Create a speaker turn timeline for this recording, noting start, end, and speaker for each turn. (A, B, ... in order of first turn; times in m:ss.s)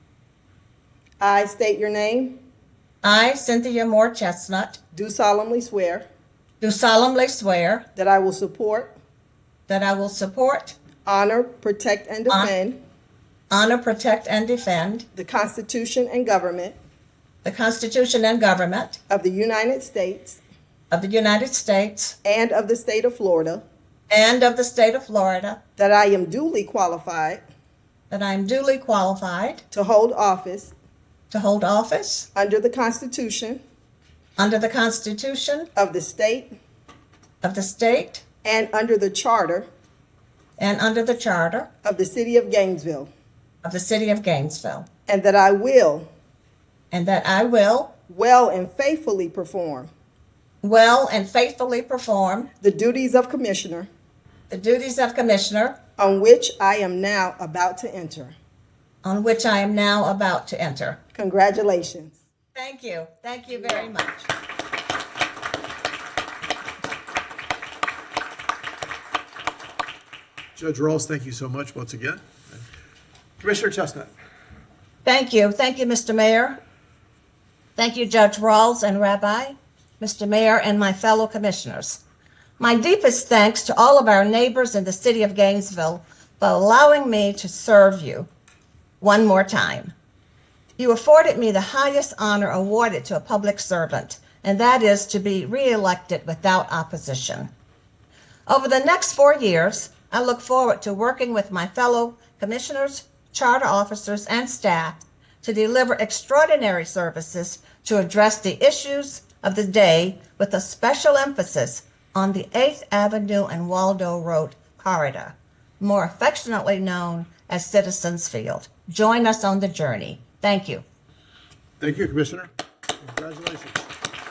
0:01.2-0:02.4 A
0:03.0-0:04.8 B
0:04.9-0:06.0 A
0:06.6-0:07.8 B
0:08.0-0:08.9 A
0:09.7-0:10.8 B
0:11.0-0:12.8 A
0:13.5-0:15.0 B
0:15.1-0:16.8 A
0:17.4-0:19.0 B
0:19.1-0:20.4 A
0:20.9-0:22.2 B
0:22.2-0:23.6 A
0:24.1-0:25.6 B
0:25.8-0:27.4 A
0:28.1-0:29.6 B
0:29.7-0:30.7 A
0:31.3-0:32.3 B
0:32.3-0:33.6 A
0:34.4-0:35.7 B
0:35.7-0:36.5 A
0:37.4-0:38.2 B
0:38.4-0:39.7 A
0:40.6-0:41.7 B
0:41.8-0:43.1 A
0:43.6-0:44.9 B
0:45.1-0:46.1 A
0:46.9-0:47.9 B
0:48.1-0:49.9 A
0:50.6-0:52.5 B
0:52.6-0:53.9 A
0:54.5-0:55.8 B
0:56.0-0:58.3 A
0:59.0-1:01.0 B
1:01.2-1:02.2 A
1:02.5-1:04.3 B
1:10.6-1:12.6 C
1:13.4-1:14.1 C
1:15.0-1:16.6 B
1:17.8-1:22.0 B
1:22.6-1:28.3 B
1:29.0-1:29.9 B
1:30.8-1:37.5 B
1:38.5-2:00.8 B
2:01.8-2:02.5 C
2:03.0-2:03.8 C